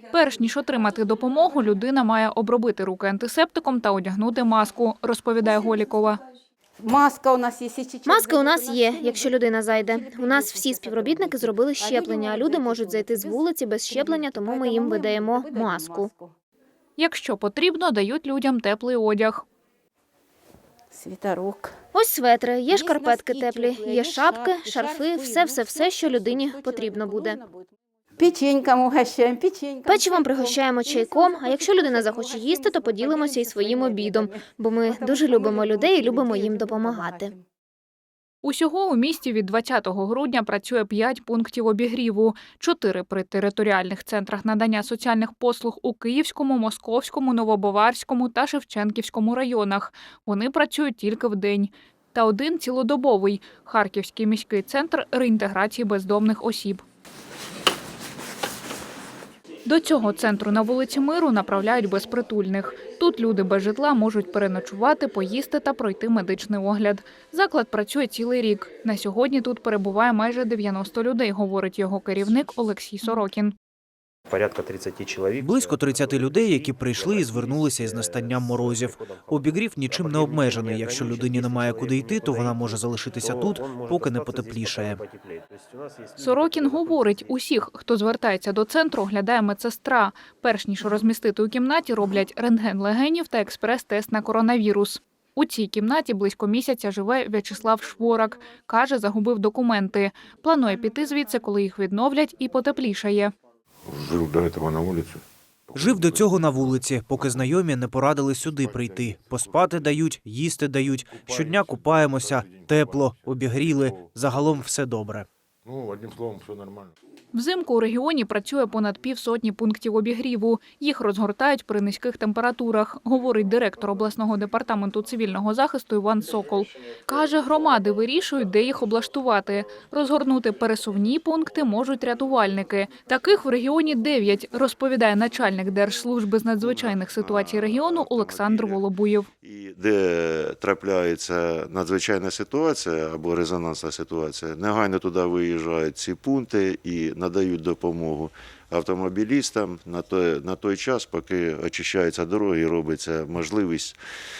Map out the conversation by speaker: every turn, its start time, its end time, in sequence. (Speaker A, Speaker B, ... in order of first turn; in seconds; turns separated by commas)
Speaker A: 0.1-6.2, Speaker B: 6.8-16.3, Speaker C: 8.1-16.1, Speaker A: 17.0-19.4, Speaker B: 20.9-21.8, Speaker C: 21.9-27.4, Speaker B: 22.7-37.4, Speaker C: 29.9-37.3, Speaker A: 38.4-56.8, Speaker A: 59.7-73.5, Speaker D: 74.3-87.4, Speaker E: 75.4-85.0, Speaker A: 86.2-103.3, Speaker F: 104.0-107.6, Speaker E: 105.8-115.3, Speaker F: 108.4-110.0, Speaker F: 111.0-114.1, Speaker F: 115.7-116.9, Speaker A: 117.3-139.3, Speaker G: 136.6-138.8, Speaker G: 139.4-154.0